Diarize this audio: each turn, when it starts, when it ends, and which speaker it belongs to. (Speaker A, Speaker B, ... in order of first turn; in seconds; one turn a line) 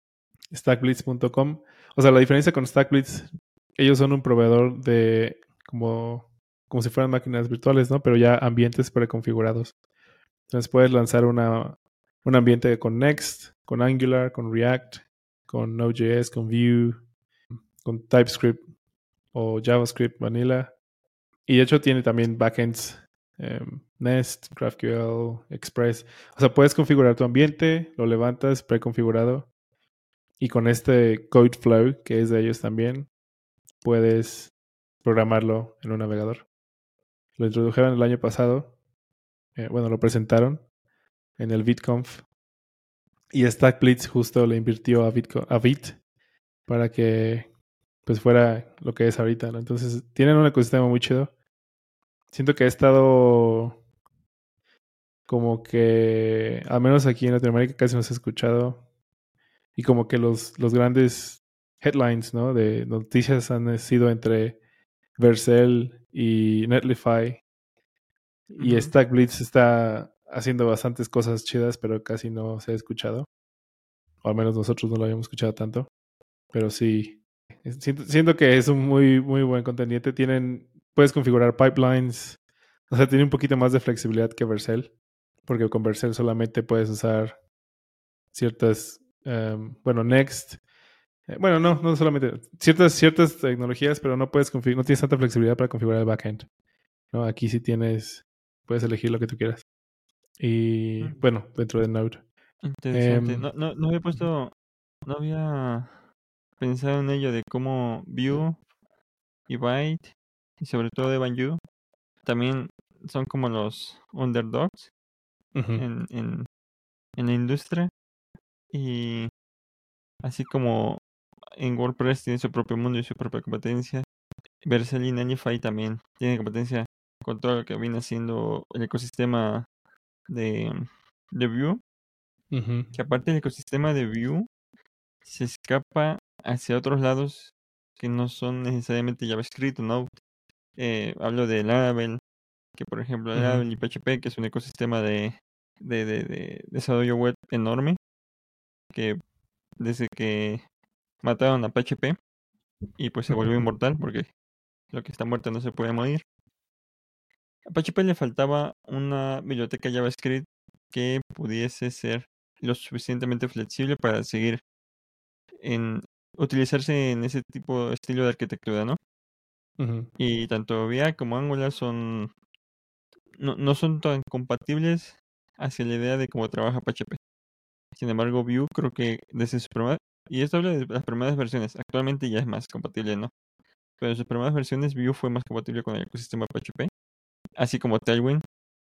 Speaker A: 0.5-9.7
Speaker A: 10.5-17.1
Speaker A: 17.8-18.7
Speaker A: 19.3-20.8
Speaker A: 21.5-29.5
Speaker A: 30.4-33.1
Speaker A: 33.8-34.5
Speaker A: 35.0-36.5
Speaker A: 37.4-38.7
Speaker A: 39.6-40.7
Speaker A: 41.4-42.3
Speaker A: 43.3-46.0
Speaker A: 46.7-47.5
Speaker A: 48.1-51.3
Speaker A: 52.3-53.8
Speaker A: 55.3-58.8
Speaker A: 59.8-64.6
Speaker A: 65.2-67.4
Speaker B: 68.5-68.9
Speaker A: 68.5-73.3
Speaker A: 74.2-75.9
Speaker A: 76.5-82.4
Speaker A: 82.9-87.4
Speaker A: 88.3-90.6
Speaker A: 91.3-96.5
Speaker A: 97.1-99.6
Speaker A: 100.4-102.3
Speaker B: 102.6-104.5
Speaker A: 102.9-103.5
Speaker B: 105.0-106.0
Speaker B: 106.6-108.6
Speaker B: 109.5-111.6
Speaker B: 112.2-114.9
Speaker A: 115.5-115.9
Speaker B: 115.8-116.5
Speaker B: 117.2-117.9
Speaker B: 118.7-119.3
Speaker B: 120.2-121.0
Speaker B: 121.6-124.0
Speaker B: 124.6-129.7
Speaker B: 130.3-131.8
Speaker A: 132.5-132.9
Speaker B: 132.9-134.5
Speaker B: 135.2-140.2
Speaker B: 140.8-142.2
Speaker B: 142.8-148.0
Speaker A: 143.3-143.7
Speaker B: 148.9-149.2
Speaker B: 149.8-150.6
Speaker B: 151.2-152.2
Speaker B: 153.0-154.3
Speaker A: 153.3-153.6
Speaker B: 154.9-156.2
Speaker B: 157.7-164.6
Speaker B: 165.6-169.0
Speaker A: 169.8-170.1
Speaker B: 170.2-172.3
Speaker B: 173.4-177.2
Speaker B: 177.9-183.3
Speaker B: 184.0-186.9
Speaker B: 187.6-188.4